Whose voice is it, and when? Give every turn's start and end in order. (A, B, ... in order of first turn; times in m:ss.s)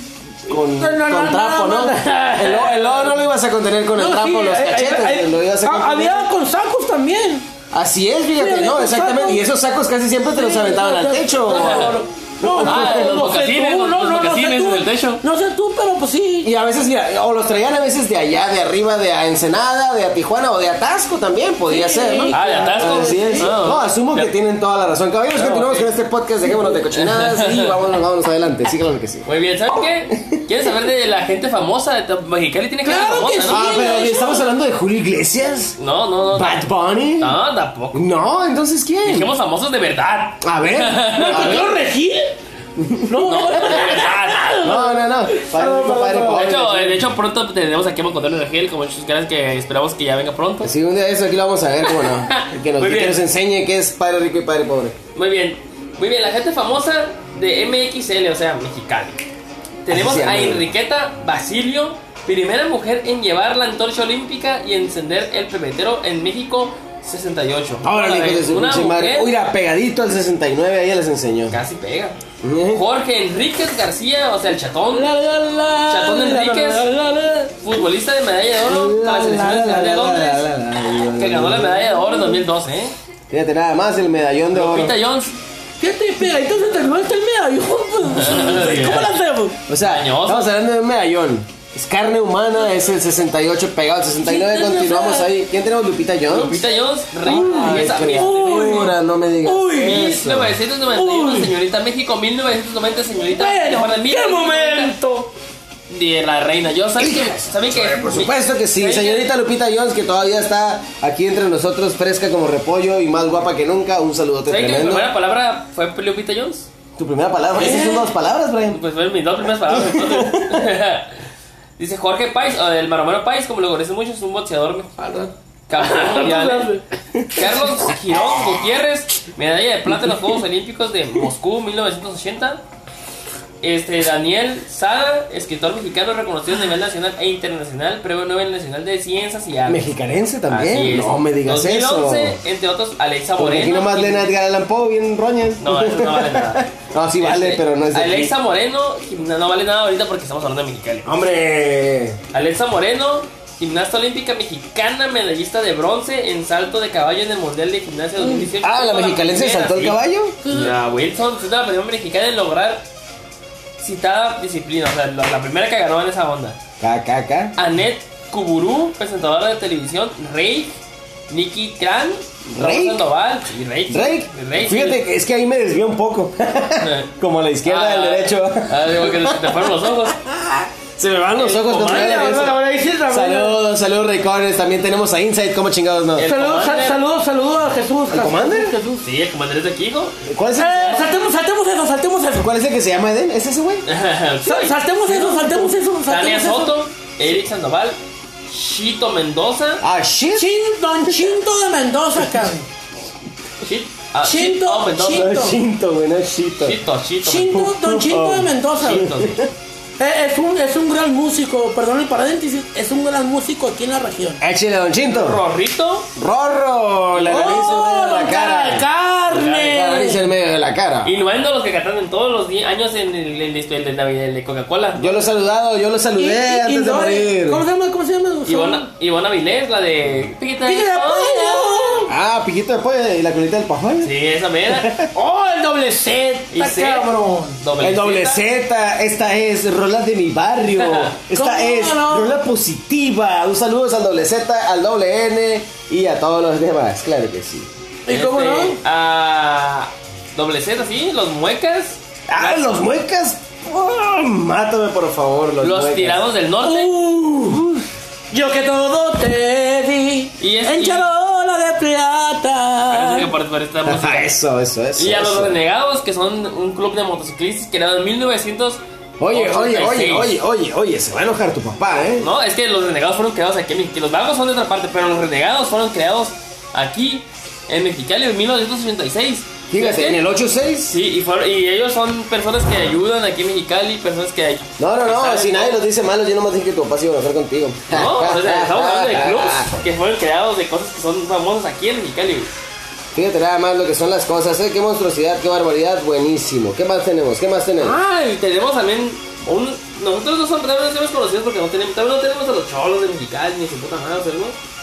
0:00.4-0:06.3 A
0:00.6-0:03.2 B
0:04.0-0:07.5 B
0:07.7-0:13.2 A
0:08.4-0:09.4 B
0:10.3-0:16.5 B
0:11.5-0:12.0 C
0:12.6-0:15.2 C
0:16.4-0:29.3 A
0:21.7-0:23.5 B
0:22.3-0:24.3 C
0:25.3-0:25.9 C
0:26.9-0:27.8 C
0:29.2-0:33.7 C
0:30.1-0:30.4 A
0:32.8-0:34.4 B
0:33.4-0:35.8 A
0:35.8-0:36.7 C
0:36.3-0:37.3 A
0:37.2-0:38.1 C
0:37.9-0:39.3 A
0:39.0-0:41.7 C
0:40.4-0:41.7 A
0:41.1-0:42.4 B
0:42.8-0:43.8 A
0:43.0-0:46.5 B
0:43.2-0:44.4 C
0:44.6-0:47.1 A
0:46.2-0:50.7 C
0:50.6-0:55.0 A
0:51.8-0:53.2 C
0:55.1-0:59.2 C
0:59.8-1:09.3 C
0:59.9-1:00.6 A
1:07.8-1:11.6 A
1:11.5-1:12.2 C
1:12.4-1:12.8 A
1:12.7-1:15.1 C
1:14.9-1:17.6 B
1:15.9-1:16.9 C
1:17.6-1:22.9 C
1:18.7-1:22.1 A
1:19.0-1:19.8 B
1:23.3-1:24.9 A
1:24.5-1:25.4 C
1:25.8-1:29.6 B
1:28.1-1:29.1 C
1:29.7-1:36.6 A
1:29.8-1:30.5 C
1:34.2-1:35.3 B
1:36.3-1:38.8 C
1:37.2-1:40.6 A
1:37.2-1:40.1 B
1:39.8-1:44.9 C
1:40.9-1:41.5 B
1:43.3-1:45.3 B
1:45.9-1:49.3 C
1:47.0-1:55.1 A
1:54.5-1:56.7 C
1:57.0-1:58.8 A
1:57.6-1:58.0 B
1:58.7-2:01.1 C
1:59.7-2:00.7 A
2:01.8-2:04.9 C
2:05.0-2:06.8 B
2:05.7-2:06.8 C
2:07.3-2:12.6 C
2:13.6-2:19.9 C
2:19.7-2:22.4 A
2:20.5-2:24.3 C
2:23.4-2:28.3 A
2:25.6-2:26.7 C
2:27.2-2:31.1 C
2:31.0-2:32.2 A
2:32.3-2:40.0 C
2:38.2-2:38.5 B
2:38.6-2:40.4 A
2:40.4-2:40.7 B
2:40.5-2:42.8 C
2:43.8-2:46.6 C
2:46.8-2:47.6 A
2:47.6-2:50.8 C
2:51.3-2:55.0 C
2:52.5-2:53.0 A
2:53.9-3:06.3 A
2:56.8-2:57.1 C
2:57.6-3:00.2 C
3:01.3-3:02.5 C
3:01.8-3:03.6 B
3:06.2-3:07.0 C
3:06.2-3:09.0 B
3:08.1-3:08.7 A
3:09.0-3:10.2 C
3:10.2-3:11.1 A
3:10.6-3:12.5 B
3:12.4-3:13.8 A
3:13.8-3:18.0 C
3:14.4-3:16.8 B
3:18.5-3:19.8 C
3:19.8-3:20.5 A
3:20.3-3:22.7 B
3:21.1-3:21.3 A
3:23.6-3:25.3 C
3:24.2-3:25.6 B
3:25.0-3:26.8 A
3:26.6-3:27.6 C
3:27.2-3:29.1 B
3:27.5-3:29.5 A
3:28.8-3:29.3 C
3:30.0-3:34.4 B
3:34.4-3:35.4 A
3:35.0-3:36.1 C
3:36.2-3:38.8 A
3:37.1-3:37.7 C
3:37.2-3:40.2 B
3:39.3-3:39.8 C
3:39.7-3:41.1 A
3:41.0-3:45.2 C
3:45.0-3:47.6 A
3:46.2-3:48.9 B
3:48.4-3:52.0 C
3:50.6-3:52.1 B
3:52.1-3:54.1 A
3:54.0-3:54.9 C
3:54.7-3:55.1 A
3:55.1-3:57.6 B
3:56.5-3:57.1 C
3:57.6-3:58.4 C
3:57.8-4:07.7 A
4:00.8-4:01.1 C
4:01.3-4:02.4 B
4:08.0-4:08.8 B
4:08.1-4:12.8 C
4:12.3-4:16.2 A
4:15.6-4:16.9 C
4:16.6-4:17.8 B
4:18.3-4:23.3 B
4:20.4-4:21.0 C
4:22.9-4:24.4 C
4:23.8-4:25.6 A
4:25.0-4:30.3 C
4:29.2-4:32.3 A
4:32.2-4:40.2 C
4:39.7-4:41.0 A
4:40.9-4:45.8 C
4:44.8-4:49.7 A
4:47.9-4:52.5 C
4:53.1-4:58.0 A
4:57.8-5:04.6 C